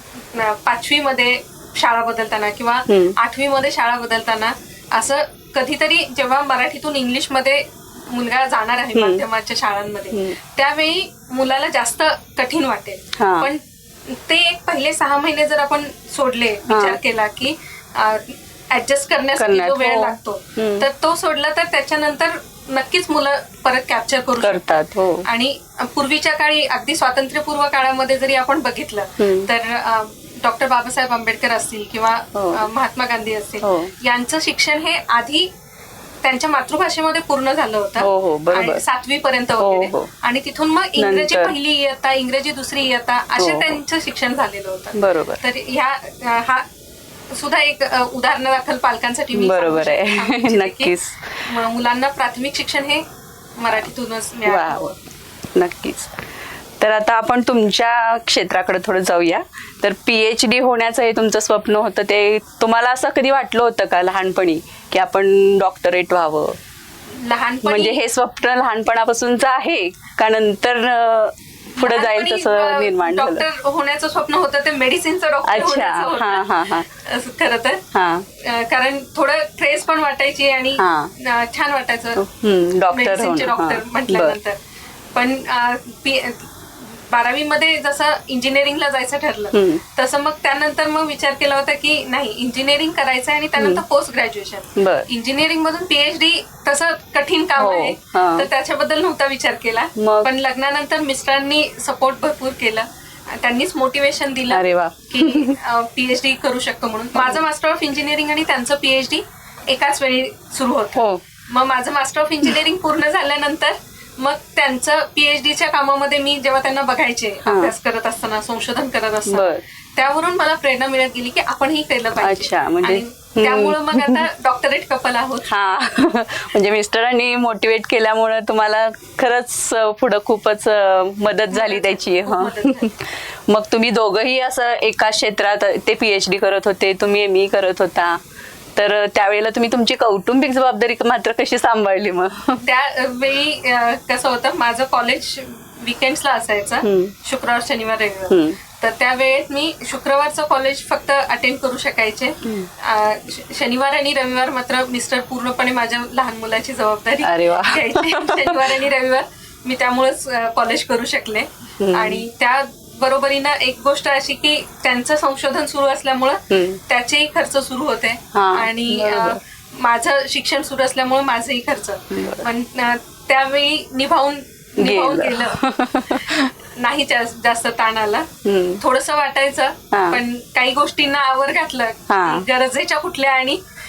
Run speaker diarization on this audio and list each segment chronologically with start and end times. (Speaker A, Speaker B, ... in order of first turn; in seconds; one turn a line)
Speaker A: 0.3-35.5
Speaker B: 2.9-3.1
Speaker B: 8.9-9.2
Speaker B: 10.1-10.4
Speaker B: 13.2-13.5
Speaker B: 16.7-17.0
Speaker B: 19.4-20.9
Speaker B: 24.4-25.2
Speaker B: 29.2-29.5
Speaker B: 32.3-32.6
Speaker B: 33.6-33.9
Speaker A: 36.2-46.6
Speaker B: 38.0-38.8
Speaker B: 39.6-40.1
Speaker B: 41.0-41.5
Speaker B: 43.4-43.8
Speaker B: 44.9-45.4
Speaker A: 47.3-53.0
Speaker B: 49.3-51.5
Speaker A: 53.6-55.0
Speaker B: 54.4-54.9
Speaker B: 55.5-56.1
Speaker B: 56.8-66.6
Speaker A: 67.1-68.0
Speaker B: 67.6-73.5
Speaker A: 71.8-77.8
Speaker B: 75.5-76.9
Speaker B: 77.9-78.2
Speaker A: 78.4-82.2
Speaker B: 80.8-81.1
Speaker B: 82.2-84.4
Speaker A: 82.9-84.6
Speaker A: 85.1-125.5
Speaker B: 89.5-89.8
Speaker B: 93.5-93.8
Speaker B: 94.8-95.1
Speaker B: 97.5-98.5
Speaker B: 100.0-100.3
Speaker B: 104.5-105.6
Speaker B: 107.1-107.4
Speaker B: 110.9-111.2
Speaker B: 117.4-117.7
Speaker B: 119.3-119.6
Speaker B: 122.2-124.2
Speaker B: 125.5-138.2
Speaker A: 131.5-133.0
Speaker B: 138.8-142.6
Speaker A: 142.6-175.6
Speaker B: 146.8-147.1
Speaker B: 148.3-148.6
Speaker B: 152.4-152.7
Speaker B: 157.2-158.8
Speaker B: 161.8-162.2
Speaker B: 166.5-166.8
Speaker B: 168.3-169.4
Speaker B: 172.1-172.5
Speaker B: 174.8-176.5
Speaker A: 176.1-178.3
Speaker B: 178.4-178.8
Speaker A: 178.8-183.6
Speaker B: 179.9-180.2
Speaker B: 182.1-182.4